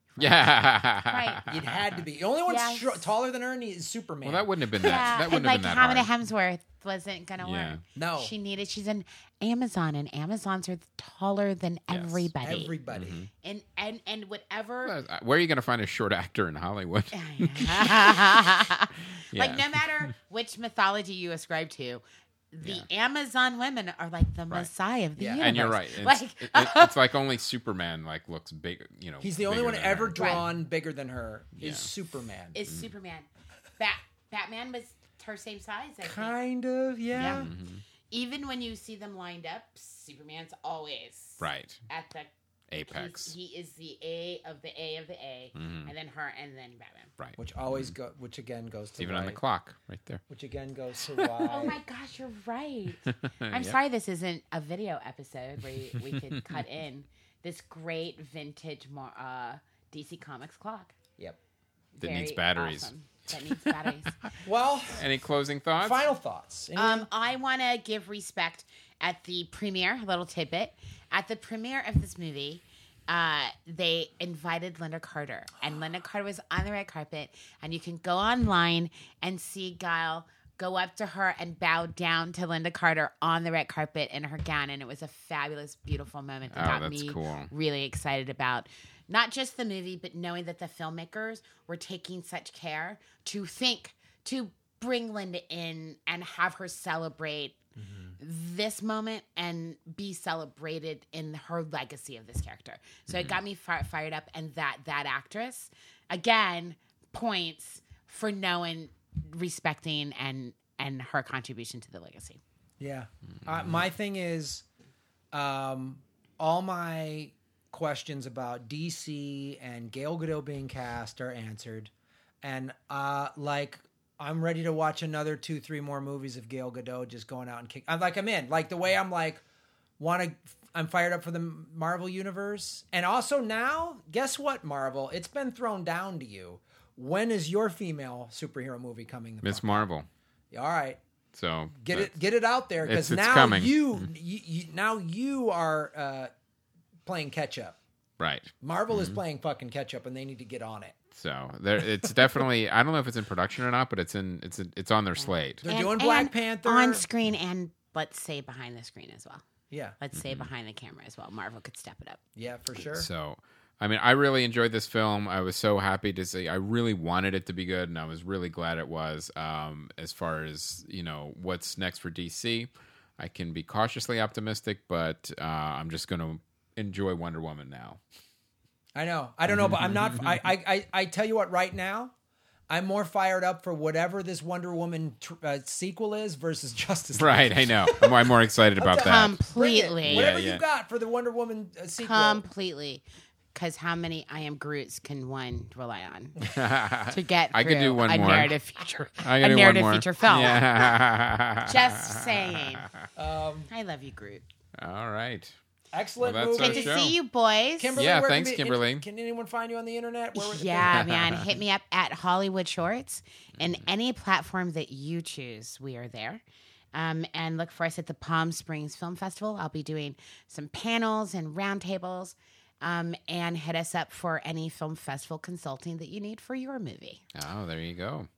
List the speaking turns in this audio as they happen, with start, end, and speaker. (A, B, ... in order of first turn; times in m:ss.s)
0:00.1-0:01.4 A
0:00.2-0:01.9 B
0:01.4-0:04.5 C
0:02.5-0:03.0 A
0:04.2-0:06.1 B
0:04.8-0:12.7 A
0:07.4-0:07.8 B
0:07.9-0:08.3 C
0:11.9-0:12.3 B
0:12.4-0:13.2 C
0:12.9-0:13.3 B
0:13.4-0:14.9 A
0:14.8-0:18.7 B
0:17.1-0:26.9 A
0:19.3-0:20.1 B
0:22.6-0:22.8 B
0:25.2-0:25.5 C
0:25.3-0:30.5 B
0:29.2-0:32.6 C
0:30.2-0:30.4 A
0:31.6-0:31.9 B
0:32.5-0:33.3 A
0:33.8-0:36.4 A
0:36.0-0:37.5 C
0:37.1-0:37.5 A
0:37.2-0:37.8 B
0:38.1-0:47.1 A
0:41.4-0:41.8 B
0:42.7-0:43.3 B
0:45.5-0:45.9 B
0:47.2-0:47.9 B
0:47.4-0:49.4 C
0:49.0-0:50.2 B
0:50.3-0:51.8 C
0:51.1-0:51.4 B
0:51.4-1:00.9 A
0:53.0-0:53.8 B
0:55.9-0:56.6 B
1:02.0-1:03.9 B
1:02.0-1:04.2 A
1:04.4-1:05.1 C
1:04.9-1:06.0 B
1:05.8-1:07.1 C
1:06.7-1:37.6 A
1:26.5-1:27.5 B
1:37.8-1:38.2 C
1:38.2-1:52.4 A
1:52.8-1:54.6 C
1:53.5-1:53.7 B
1:55.3-2:09.4 C
2:10.0-2:19.8 C
2:19.4-2:20.1 B
2:20.5-2:21.0 C
2:21.3-2:22.1 B
2:21.8-2:26.3 C
2:22.8-2:24.1 B
2:27.0-2:27.8 C
2:28.2-2:29.2 B
2:28.6-2:31.0 C
2:31.2-2:35.6 B
2:35.2-2:39.4 A
2:35.6-2:37.1 C
2:39.7-2:40.0 C
2:40.0-2:42.2 A
2:40.2-2:40.5 B
2:42.4-2:43.1 C
2:42.9-2:58.0 B
2:58.9-3:02.1 C
2:59.5-3:00.4 B
3:02.7-3:12.4 C
3:07.1-3:09.4 B
3:09.0-3:10.3 A
3:10.0-3:10.6 B
3:12.0-3:13.0 A
3:13.5-3:16.4 A
3:16.5-3:18.5 B
3:17.1-3:20.9 A
3:19.2-3:23.0 B
3:21.6-3:22.9 A
3:23.2-3:23.7 C
3:23.7-3:24.4 A
3:24.8-3:25.5 B
3:25.9-3:27.0 C
3:26.2-3:27.1 B
3:26.6-3:28.0 A
3:27.8-3:31.1 C
3:28.0-3:29.0 B
3:30.3-3:36.4 A
3:31.0-3:31.4 B
3:33.6-3:33.8 B
3:36.9-3:47.2 A
3:47.3-3:48.3 B